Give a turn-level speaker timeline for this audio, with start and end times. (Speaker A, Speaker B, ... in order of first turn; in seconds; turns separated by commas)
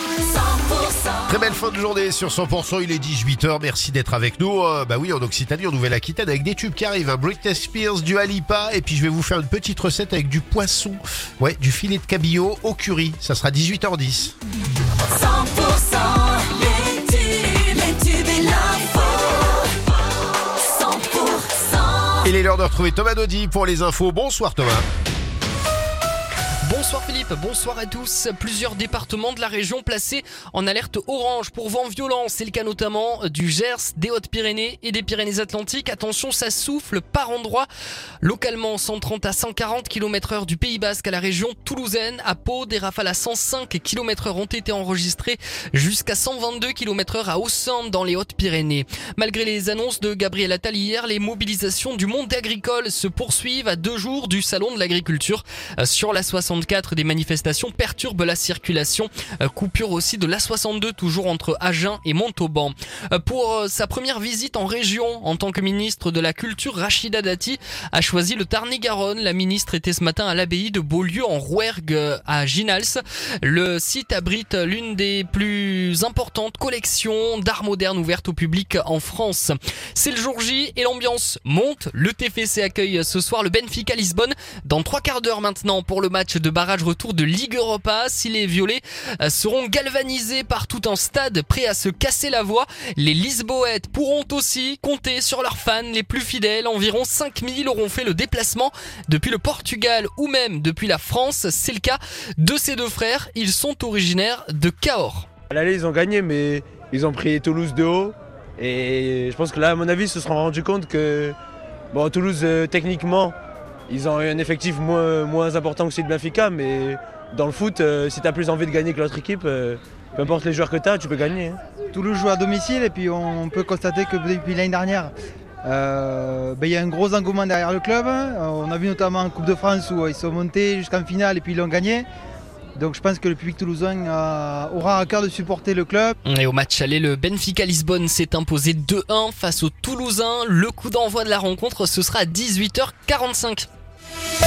Speaker A: 1.2-14.3, Speaker B: 15.2-19.0, Speaker B: 20.8-21.7, Speaker A: 22.2-24.9, Speaker C: 26.6-37.7, Speaker C: 38.2-105.3, Speaker D: 105.5-111.3, Speaker D: 111.9-113.3, Speaker D: 113.9-121.6, Speaker E: 121.9-125.1, Speaker E: 125.6-132.1, Speaker E: 132.8-136.2, Speaker C: 136.2-143.7